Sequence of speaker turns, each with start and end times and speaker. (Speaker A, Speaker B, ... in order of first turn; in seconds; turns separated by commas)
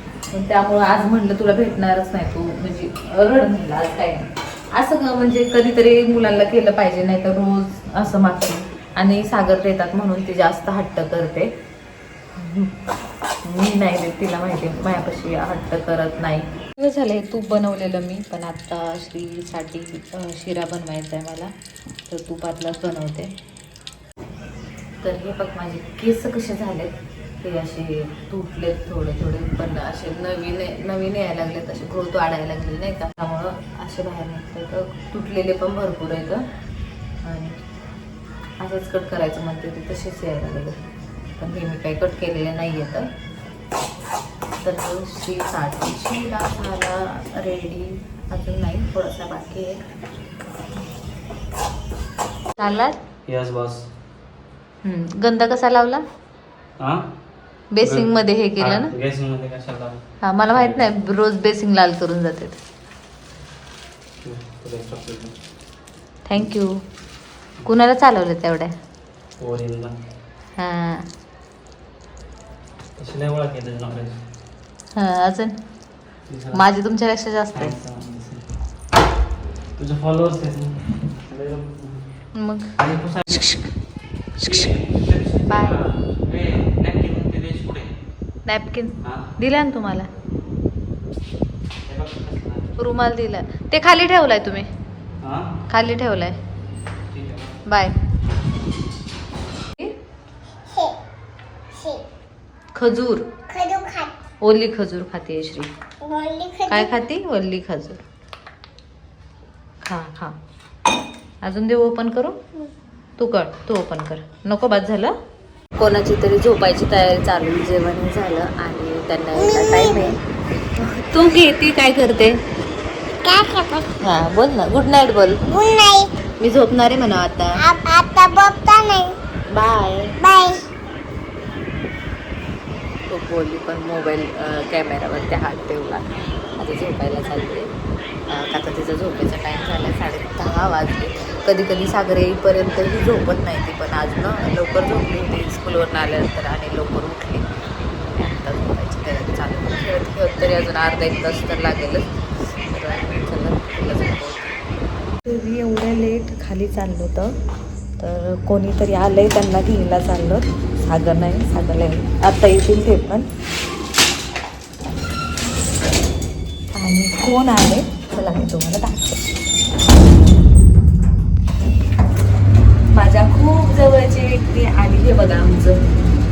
Speaker A: 0.3-11.5, Speaker A: 12.3-12.8, Speaker A: 13.4-21.5, Speaker A: 22.1-23.3, Speaker A: 25.0-36.5, Speaker A: 37.2-37.6, Speaker A: 38.6-40.8, Speaker A: 41.4-43.1, Speaker A: 44.6-49.9, Speaker A: 52.6-53.0, Speaker B: 53.3-53.9, Speaker A: 54.8-56.0, Speaker A: 57.7-58.9, Speaker B: 57.8-60.0, Speaker A: 60.2-62.6, Speaker B: 60.5-60.9, Speaker B: 64.2-65.3, Speaker A: 66.3-66.8, Speaker A: 67.6-68.7, Speaker B: 69.4-69.9, Speaker A: 70.6-71.0, Speaker B: 73.0-74.2, Speaker A: 74.9-75.6, Speaker B: 76.3-76.6, Speaker A: 76.5-77.8, Speaker B: 77.5-78.4, Speaker B: 79.8-82.0, Speaker A: 82.3-82.7, Speaker B: 82.8-83.5, Speaker A: 83.3-83.7, Speaker A: 84.4-84.7, Speaker B: 84.4-87.9, Speaker A: 85.5-85.8, Speaker A: 88.5-90.1, Speaker B: 89.0-89.3, Speaker B: 91.8-92.7, Speaker A: 92.8-94.7, Speaker B: 95.2-95.5, Speaker A: 95.7-96.4, Speaker B: 97.1-97.6, Speaker A: 97.6-97.9, Speaker A: 102.7-103.3, Speaker C: 103.5-104.1, Speaker A: 104.4-105.7, Speaker C: 106.0-106.7, Speaker A: 106.6-108.0, Speaker A: 109.8-110.4, Speaker A: 111.4-112.4, Speaker A: 113.2-115.1, Speaker A: 115.8-120.2, Speaker A: 120.7-122.4, Speaker C: 123.2-123.8, Speaker A: 124.0-125.4, Speaker C: 125.5-126.1, Speaker A: 126.4-127.7, Speaker C: 127.7-129.2, Speaker A: 129.5-130.2, Speaker C: 130.2-130.6, Speaker A: 133.1-137.7, Speaker A: 138.3-147.5, Speaker A: 148.1-154.5, Speaker A: 155.2-157.3, Speaker A: 158.0-163.3, Speaker A: 166.7-169.2, Speaker A: 172.9-175.8